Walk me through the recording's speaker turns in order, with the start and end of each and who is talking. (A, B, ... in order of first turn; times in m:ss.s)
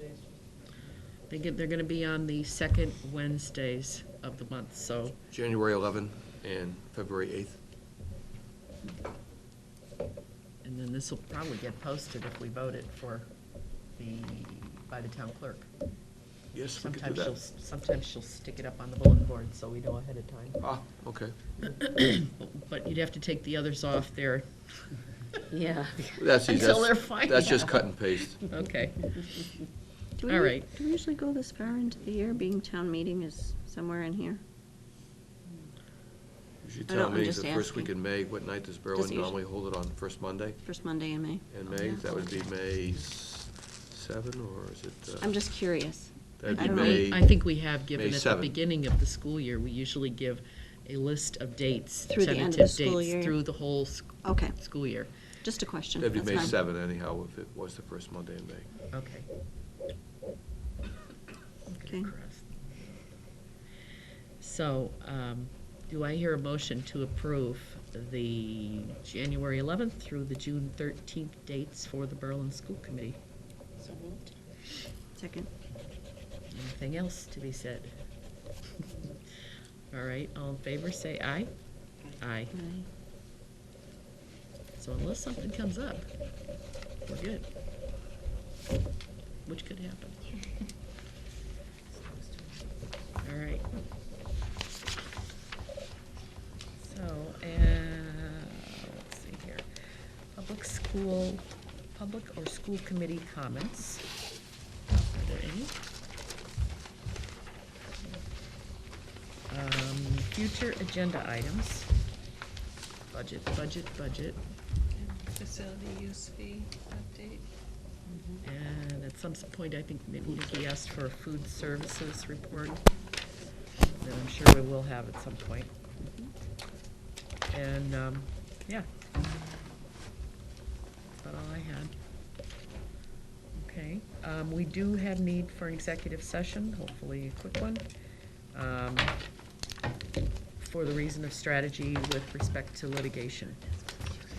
0:01.3-0:05.2 A
0:05.3-0:07.6 B
0:10.6-0:13.3 A
0:14.0-0:15.7 A
0:16.5-0:17.4 B
0:16.8-0:20.6 A
0:20.6-0:21.4 B
0:21.6-0:24.5 A
0:25.5-0:26.2 C
0:26.1-0:28.5 B
0:26.4-0:27.8 A
0:28.4-0:29.4 A
0:30.2-0:34.4 D
0:30.3-0:30.7 A
0:36.6-0:40.7 B
0:36.9-0:37.9 D
0:38.9-0:39.4 D
0:40.6-0:41.5 D
0:41.5-0:45.4 B
0:45.2-0:47.1 D
0:46.4-0:48.5 B
0:46.5-0:55.1 A
0:52.1-0:53.4 D
0:54.2-0:54.6 D
0:55.4-0:56.5 D
0:56.0-0:58.7 B
0:56.2-0:56.5 A
0:58.9-0:59.3 A
1:01.7-1:03.0 A
1:01.9-1:02.1 D
1:04.4-1:13.2 A
1:13.8-1:14.2 C
1:15.2-1:15.5 D
1:16.5-1:17.9 A
1:19.9-1:21.5 A
1:22.2-1:22.5 A
1:22.5-1:22.9 D
1:24.8-1:26.1 A
1:27.0-1:27.4 A
1:29.4-1:30.2 A
1:31.9-1:32.4 C
1:33.2-1:33.7 A
1:36.8-1:39.7 A
1:40.3-1:44.0 A
1:45.1-1:45.7 A
1:49.5-1:51.9 A
1:53.1-1:54.4 A
1:55.3-1:57.4 E
1:58.1-1:58.4 C
1:58.4-2:02.8 A
2:04.0-2:05.7 A
2:07.5-2:08.9 A
2:11.2-2:11.9 A
2:13.6-2:17.8 A
2:18.5-2:19.2 A
2:20.6-2:23.6 A